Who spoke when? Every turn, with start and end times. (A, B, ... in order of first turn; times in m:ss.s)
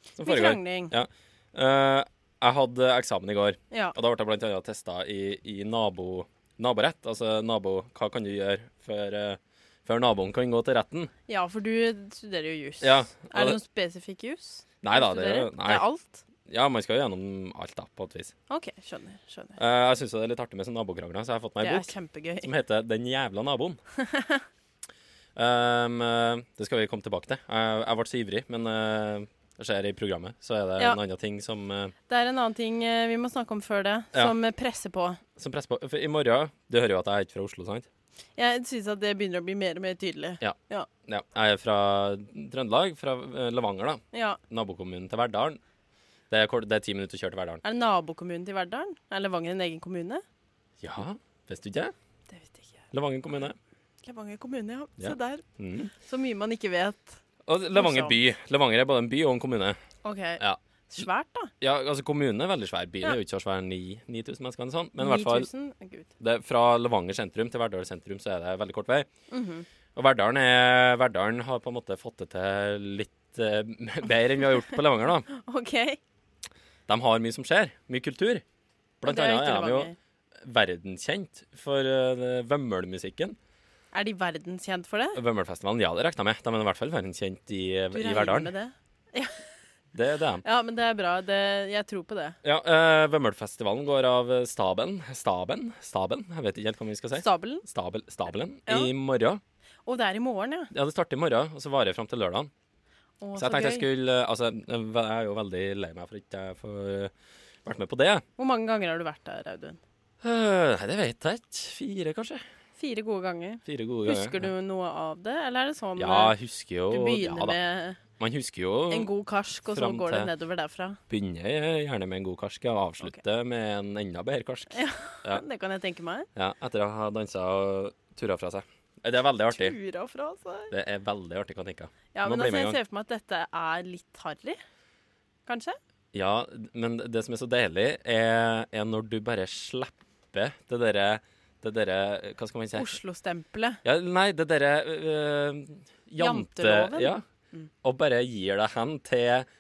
0:00.2-0:11.1 A
0:00.2-0:00.9 B
0:11.3-0:16.2 B
0:12.8-0:13.6 A
0:14.8-0:15.8 A
0:16.5-0:18.3 A
0:18.5-0:19.6 B
0:19.6-0:23.8 A
0:21.6-0:22.5 B
0:24.0-0:24.4 B
0:25.4-0:31.9 A
0:32.1-0:35.2 B
0:35.4-0:37.9 A
0:38.4-0:40.9 B
0:40.4-0:45.6 A
0:44.1-0:44.4 B
0:46.3-0:47.6 A
0:47.6-0:50.2 B
0:50.8-0:51.9 A
0:52.3-0:52.8 B
0:52.9-0:53.6 A
0:54.0-0:55.4 B
0:55.0-0:55.9 A
0:56.0-0:57.2 B
0:57.5-0:59.8 A
0:57.7-0:58.2 B
1:00.0-1:01.5 B
1:00.4-1:01.0 A
1:01.6-1:05.5 A
1:05.0-1:06.1 B
1:06.2-1:09.1 A
1:09.3-1:09.6 B
1:10.0-1:15.3 A
1:15.3-1:16.0 B
1:16.9-1:18.4 A
1:19.0-1:19.9 A
1:19.0-1:20.0 B
1:20.4-1:23.4 A
1:23.9-1:25.2 B
1:25.2-1:28.5 A
1:27.9-1:29.4 B
1:29.9-1:30.4 A
1:30.4-1:32.4 B
1:32.4-1:39.4 A
1:37.2-1:37.6 B
1:39.9-1:40.7 B
1:40.7-1:42.5 A
1:43.2-1:43.9 B
1:43.4-1:47.1 A
1:47.6-1:48.2 A
1:48.4-1:49.8 B
1:50.2-1:52.4 A
1:52.8-1:56.3 B
1:53.7-1:54.5 A
1:56.0-1:57.6 A
1:56.9-1:58.0 B
1:58.2-1:59.1 A
1:58.9-2:01.0 B
1:59.7-2:00.3 A
2:01.1-2:05.4 A
2:04.7-2:06.3 B
2:06.4-2:09.8 A
2:09.5-2:10.7 B
2:10.7-2:12.8 A
2:12.1-2:14.6 B
2:15.5-2:15.8 B
2:16.1-2:23.0 A
2:22.7-2:23.8 B
2:23.8-2:27.2 A
2:26.2-2:27.7 B
2:27.8-2:29.5 A